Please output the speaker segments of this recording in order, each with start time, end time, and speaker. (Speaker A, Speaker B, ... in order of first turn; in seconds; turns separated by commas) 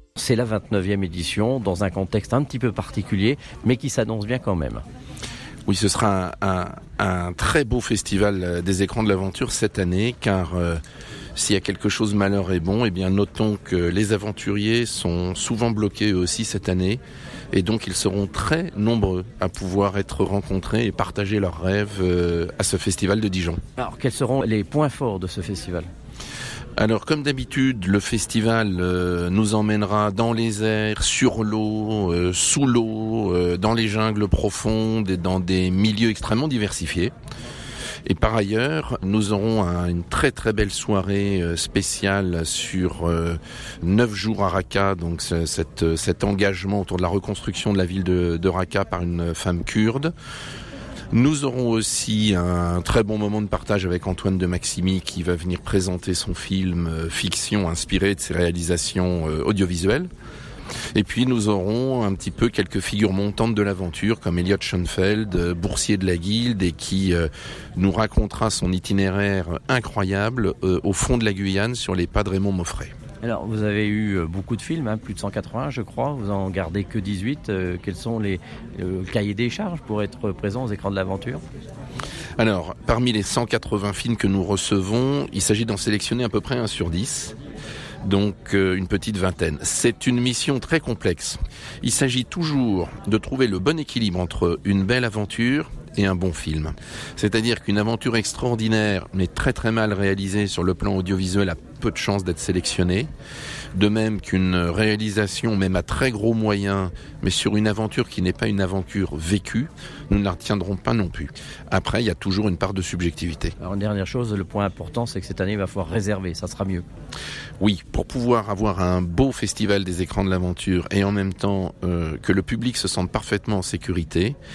Speaker A: 0.1-4.8, Speaker B: 5.7-10.8, Speaker B: 11.4-17.0, Speaker B: 17.5-23.6, Speaker A: 23.8-25.9, Speaker B: 26.8-37.1, Speaker B: 38.0-50.1, Speaker B: 51.1-60.1, Speaker B: 61.0-72.9, Speaker A: 73.2-81.4, Speaker B: 82.4-87.4, Speaker B: 88.0-103.1, Speaker B: 103.8-113.5, Speaker A: 113.6-116.9, Speaker B: 117.6-124.4